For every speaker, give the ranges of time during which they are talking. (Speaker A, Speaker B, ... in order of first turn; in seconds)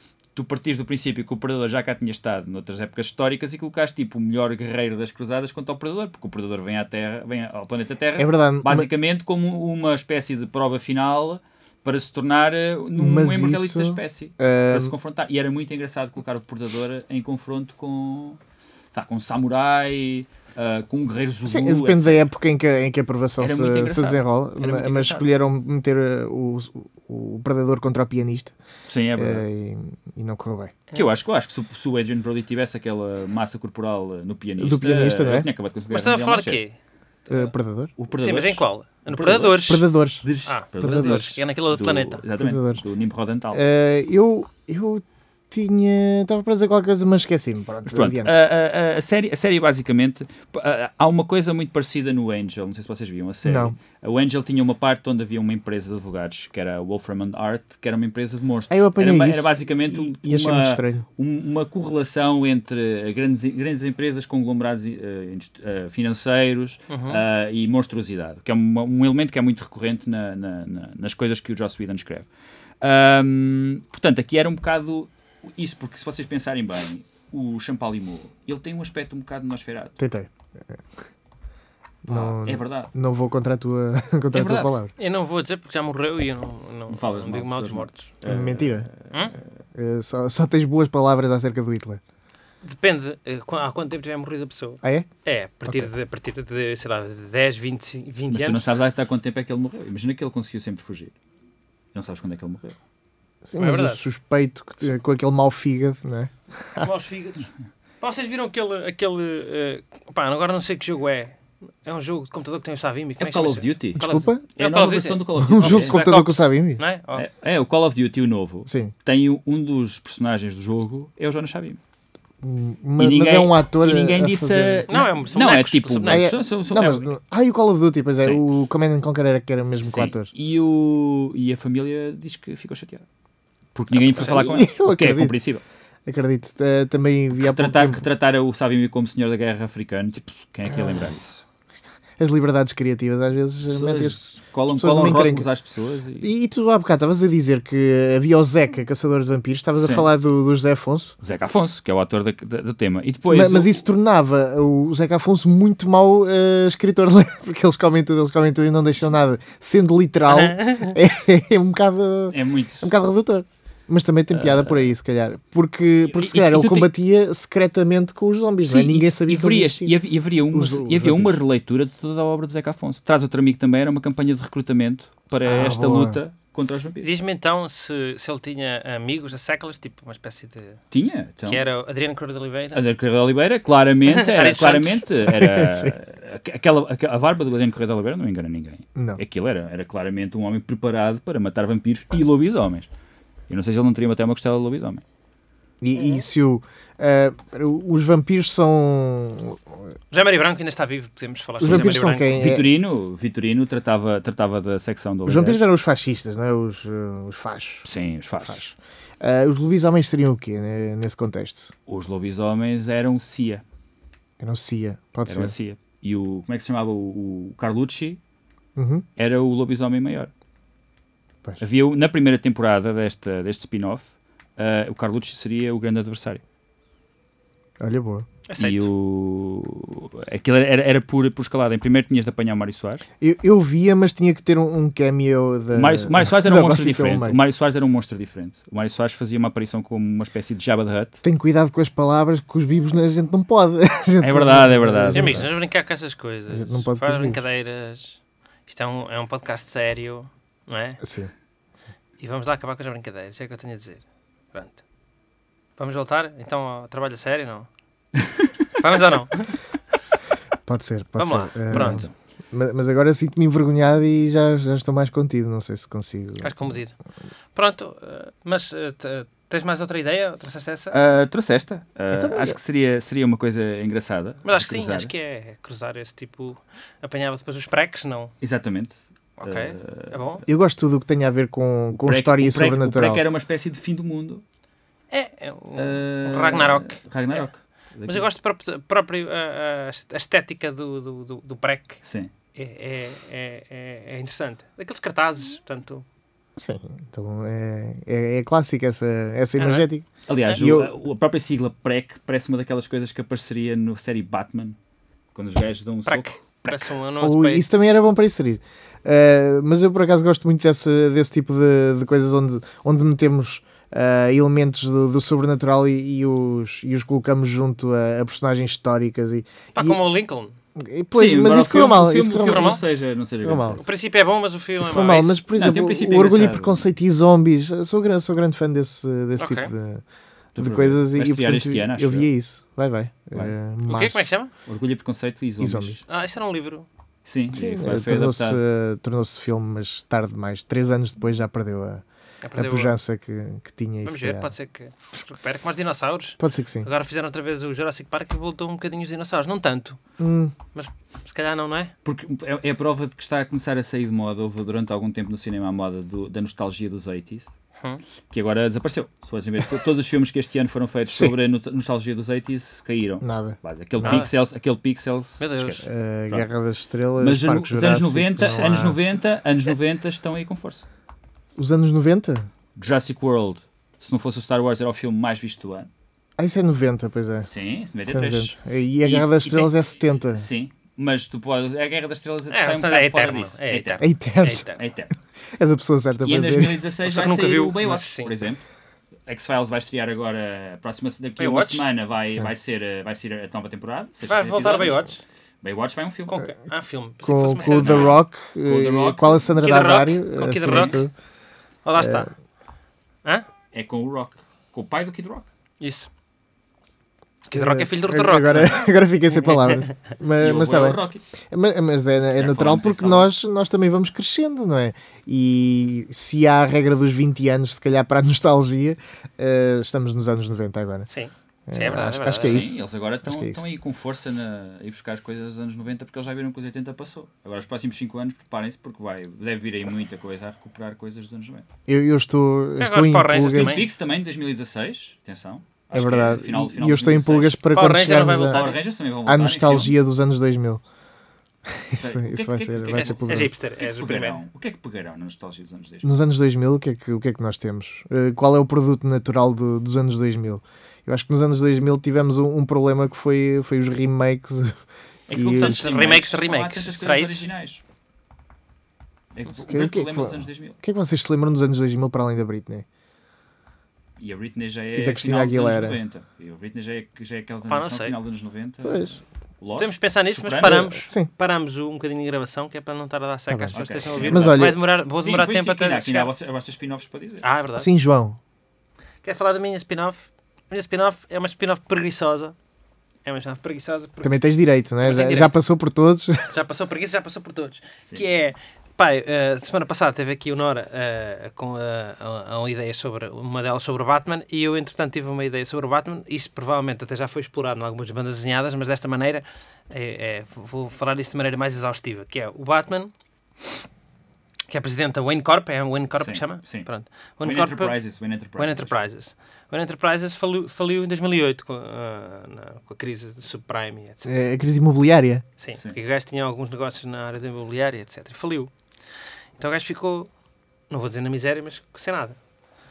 Speaker A: 0.3-18.4, 18.9-22.2, 23.4-25.3, 28.9-29.4, 30.9-36.6, 38.0-43.6, 47.9-72.3, 72.8-80.0, 82.1-82.9, 84.3-84.7, 86.9-89.2, 98.3-101.1, 101.9-102.8, 113.2-114.0, 114.5-116.5, 117.2-121.8, 123.0-127.0, 129.8-133.1, 133.8-135.6, 137.4-141.4, 143.7-146.3, 149.8-150.1, 151.2-153.8, 162.3-162.9, 164.3-164.9, 166.1-166.9, 168.6-177.1, 180.9-181.6, 182.7-192.9, 193.5-195.0, 202.3-205.7, 207.8-208.6, 211.9-213.6, 215.3-218.2, 219.2-220.3, 221.6-226.4, 228.6-233.1, 235.7-241.2, 244.2-245.5, 261.7-262.1, 270.9-275.1, 278.4-280.2, 282.0-284.4, 285.8-288.3, 292.0-292.3, 300.3-304.8, 305.4-306.9, 321.1-323.8, 325.5-326.9, 330.6-332.3, 334.7-336.0, 337.2-338.6, 352.1-357.5, 358.3-366.5, 367.2-370.9, 372.8-375.9, 377.4-384.0, 384.7-385.1, 386.2-388.6, 389.3-395.1, 395.6-396.4, 397.6-399.5, 400.6-401.0, 403.7-405.5, 410.4-411.2, 412.4-413.3, 422.3-431.6, 433.5-437.6, 438.2-439.9, 442.0-446.1, 455.3-457.8, 459.4-460.8, 464.2-470.9, 473.8-477.5, 506.2-506.9, 507.4-508.9
Speaker B: 8.2-8.9, 13.0-14.9, 21.5-28.6, 29.2-30.8, 34.6-35.5, 37.3-37.9, 39.7-40.3, 40.8-41.4, 42.4-42.8, 43.5-48.3, 53.4-53.8, 58.7-61.1, 80.0-80.8, 82.0-84.9, 88.3-88.9, 89.8-92.0, 94.8-95.1, 103.5-106.9, 114.0-114.4, 115.4-116.8, 118.7-118.9, 122.4-124.9, 126.1-130.3, 134.2-135.4, 136.1-138.1, 140.7-141.1, 142.2-145.5, 146.2-151.2, 153.3-170.0, 170.5-171.4, 175.4-176.2, 185.3-185.9, 195.8-199.6, 201.6-202.7, 205.3-207.9, 208.4-211.7, 214.4-215.5, 218.8-219.1, 227.8-228.3, 233.2-237.4, 241.2-245.5, 246.5-247.4, 251.0-251.3, 260.7-266.5, 272.1-272.6, 280.5-283.2, 296.6-300.9, 307.2-320.0, 320.8-322.8, 323.4-323.8, 324.8-330.0, 330.6-334.3, 335.6-336.0, 337.5-342.0, 342.6-344.5, 346.4-346.9, 350.2-350.5, 363.2-364.3, 365.8-369.0, 371.6-372.5, 376.4-377.5, 378.1-380.5, 384.0-384.7, 385.5-386.8, 397.2-401.1, 402.0-402.3, 407.5-421.1, 421.7-423.6, 431.9-433.9, 435.9-438.7, 439.3-440.8, 441.7-443.5, 446.0-455.8, 459.7-462.9, 465.0-466.0, 468.8-469.2, 470.6-471.3, 473.5-474.8, 477.8-478.4, 484.2-486.5, 514.2-515.5
Speaker C: 35.9-36.8, 38.1-39.8, 40.5-42.2, 66.9-67.2, 85.0-88.1, 92.6-98.7, 103.6-104.0, 106.8-107.5, 108.0-117.3, 124.9-126.4, 160.3-161.0, 177.0-180.8, 181.5-182.8, 184.1-185.1, 200.1-202.4, 228.5-228.9, 245.1-251.0, 252.2-254.8, 255.8-257.7, 258.8-259.6, 261.2-262.1, 266.4-266.9, 267.6-271.0, 274.4-278.3, 279.4-280.4, 285.1-287.5, 288.1-292.0, 292.6-296.1, 299.6-299.9, 306.1-307.7, 319.8-320.5, 322.4-322.8, 323.8-325.4, 329.4-329.7, 333.9-334.5, 336.1-336.9, 342.4-343.0, 344.1-350.0, 350.7-351.9, 364.0-364.3, 365.4-365.9, 382.5-384.8, 387.1-388.3, 391.4-391.9, 394.3-395.2, 396.3-398.2, 399.6-401.0, 401.9-402.3, 405.8-406.1, 407.4-408.9, 421.1-422.7, 432.8-433.9, 437.7-438.8, 443.0-444.4, 455.5-457.5, 467.7-468.2, 469.8-476.3, 477.4-477.9, 479.2-482.6, 483.2-484.4, 485.0-485.5, 486.5-503.1, 504.7-508.0, 508.6-514.3, 515.6-518.7, 519.6-520.3, 520.9-522.4